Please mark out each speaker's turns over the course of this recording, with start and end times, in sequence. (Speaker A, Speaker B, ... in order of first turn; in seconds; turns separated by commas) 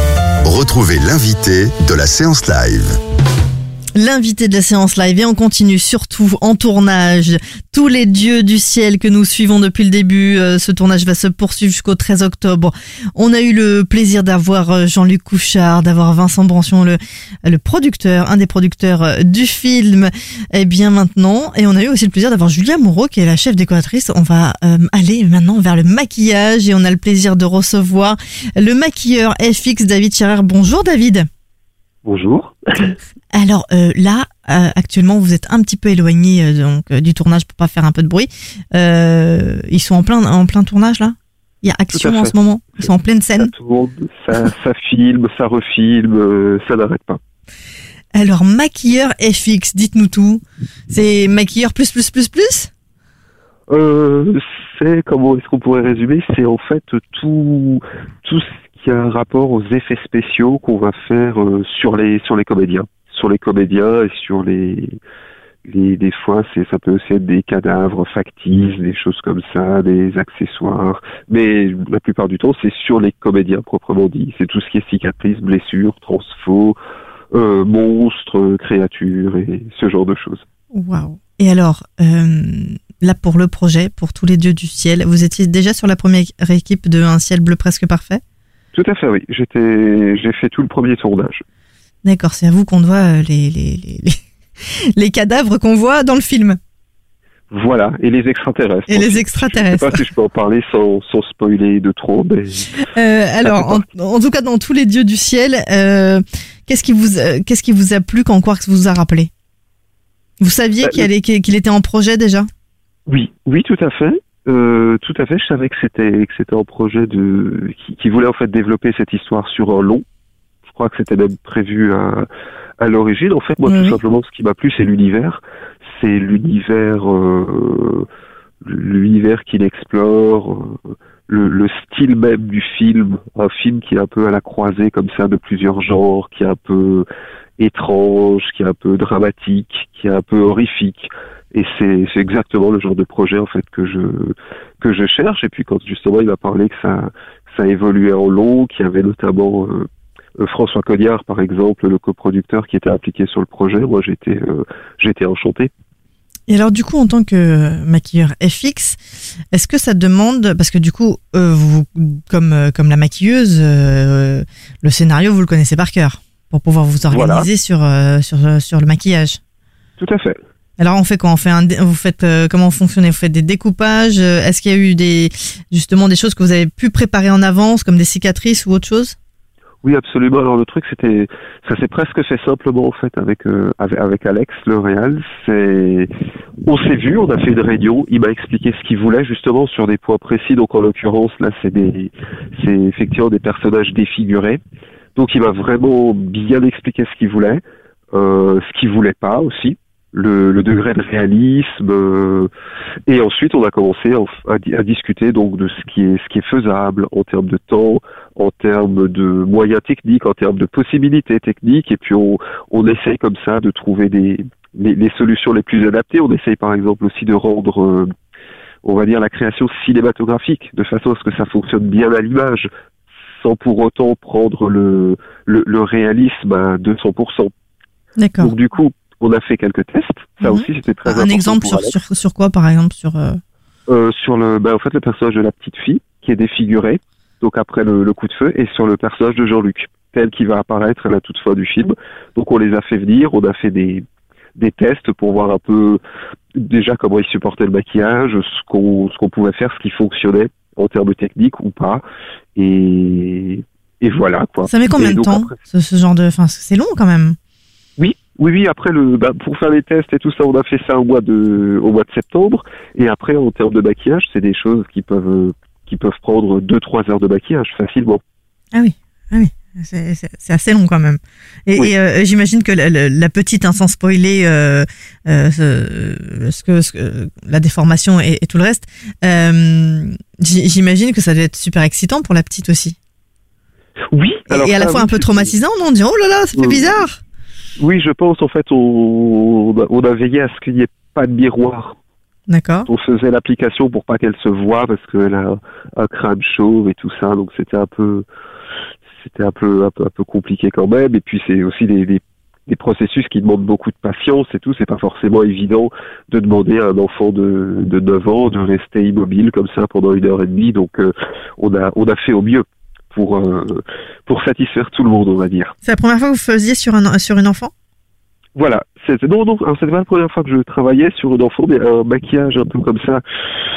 Speaker A: 0.5-2.9, Speaker B: 4.0-31.3, Speaker C: 32.0-33.0, Speaker B: 33.3-43.5, Speaker C: 41.9-42.8, Speaker C: 43.4-47.2, Speaker B: 48.2-52.7, Speaker C: 53.7-65.0, Speaker C: 65.7-76.8, Speaker C: 77.3-80.5, Speaker B: 80.7-88.2, Speaker C: 88.7-91.4, Speaker B: 92.0-96.6, Speaker C: 97.5-102.7, Speaker B: 98.9-100.0, Speaker B: 102.8-109.3, Speaker C: 103.4-103.8, Speaker B: 110.4-112.5, Speaker C: 110.8-111.1, Speaker C: 113.1-120.0, Speaker C: 120.7-122.3, Speaker C: 122.8-125.4, Speaker B: 123.7-124.0, Speaker C: 126.0-128.1, Speaker C: 128.6-137.1, Speaker C: 137.6-155.7, Speaker B: 156.5-159.0, Speaker B: 159.5-169.4, Speaker C: 167.1-167.5, Speaker C: 170.0-170.4, Speaker B: 170.8-179.2, Speaker C: 179.8-186.1, Speaker C: 186.7-194.6, Speaker C: 195.2-197.6, Speaker C: 198.1-202.5, Speaker C: 203.1-218.1, Speaker C: 218.8-222.7, Speaker C: 223.4-227.5, Speaker B: 228.2-228.5, Speaker C: 228.4-232.0, Speaker B: 230.4-233.4, Speaker C: 233.9-244.0, Speaker C: 244.6-246.0, Speaker C: 246.6-252.0, Speaker C: 252.6-255.6, Speaker B: 254.7-257.4, Speaker C: 258.0-268.2, Speaker B: 268.7-283.0, Speaker C: 284.1-285.6, Speaker B: 284.5-287.2, Speaker C: 286.6-287.0, Speaker C: 287.8-292.0, Speaker B: 292.5-292.9, Speaker C: 292.9-298.2, Speaker C: 299.2-315.7, Speaker B: 315.8-317.7, Speaker C: 318.6-323.2